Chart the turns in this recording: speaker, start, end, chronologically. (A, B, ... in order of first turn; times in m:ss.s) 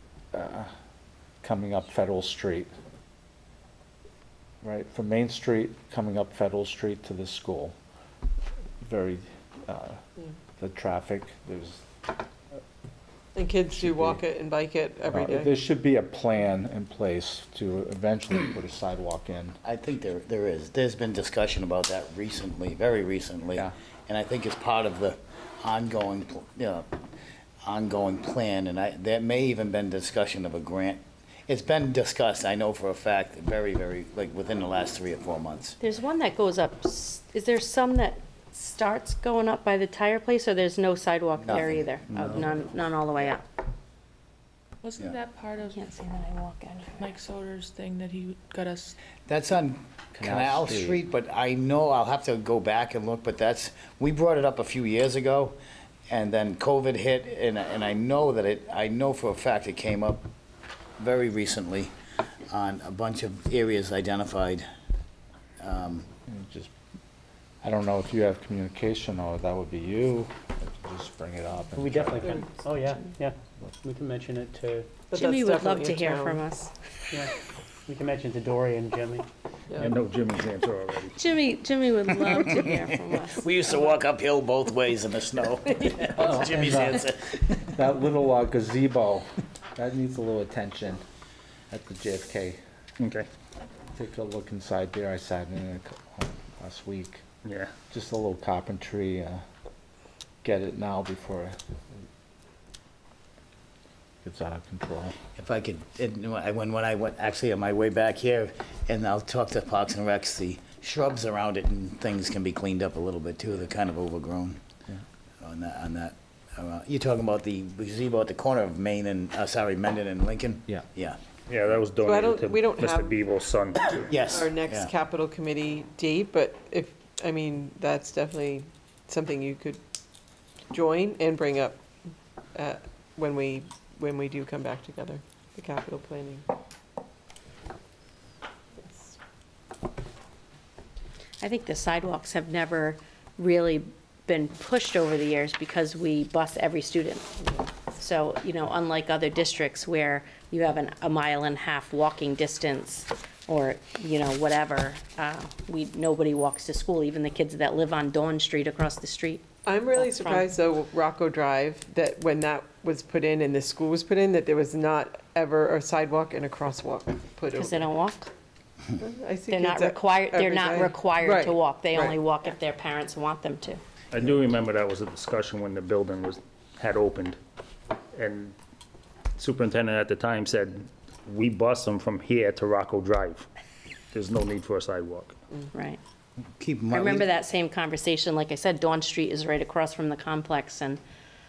0:00.3-0:00.7 A
0:01.4-0:02.7 A
0:04.6-0:07.8 A
0:08.8-0:10.0 A
0:10.6-0:11.9 A
0:13.4-0:15.6 B
0:13.7-0:14.2 A
0:15.0-0:19.6 A
0:19.6-0:26.9 C
0:27.6-0:35.8 C
0:35.8-0:43.4 D
0:41.4-0:42.5 C
0:44.8-0:45.8 E
0:45.6-0:47.2 D
0:47.0-0:49.0 E
0:49.3-0:55.6 C
0:50.1-0:51.0 A
0:56.1-1:00.3 C
1:01.0-1:01.9 C
1:02.5-1:04.7 C
1:05.6-1:06.1 C
1:06.3-1:06.7 A
1:07.6-1:12.4 A
1:11.7-1:14.9 F
1:15.1-1:16.4 B
1:15.1-1:16.7 D
1:17.9-1:19.2 F
1:19.8-1:21.2 G
1:21.2-1:23.5 D
1:23.3-1:27.8 C
1:26.1-1:27.1 A
1:27.7-1:31.0 A
1:31.7-1:32.6 A
1:33.0-1:33.3 G
1:33.9-1:37.2 A
1:37.4-1:37.7 G
1:37.9-1:39.4 A
1:40.4-1:41.6 A
1:44.2-1:45.2 A
1:45.4-1:54.6 C
1:55.4-2:01.2 C
2:01.5-2:04.2 G
2:02.0-2:03.2 B
2:04.0-2:04.9 C
2:04.2-2:09.8 B
2:10.7-2:11.8 B
2:12.6-2:16.4 B
2:18.8-2:19.2 B
2:21.4-2:27.3 D
2:28.0-2:40.5 D
2:39.7-2:47.9 B
2:47.5-2:48.3 D
2:49.0-2:52.2 B
2:49.5-2:53.8 D
2:54.1-2:57.4 G
2:58.2-2:58.6 G
2:59.4-3:03.5 G
3:04.1-3:05.4 G
3:05.7-3:06.0 D
3:06.6-3:07.3 C
3:06.9-3:11.0 D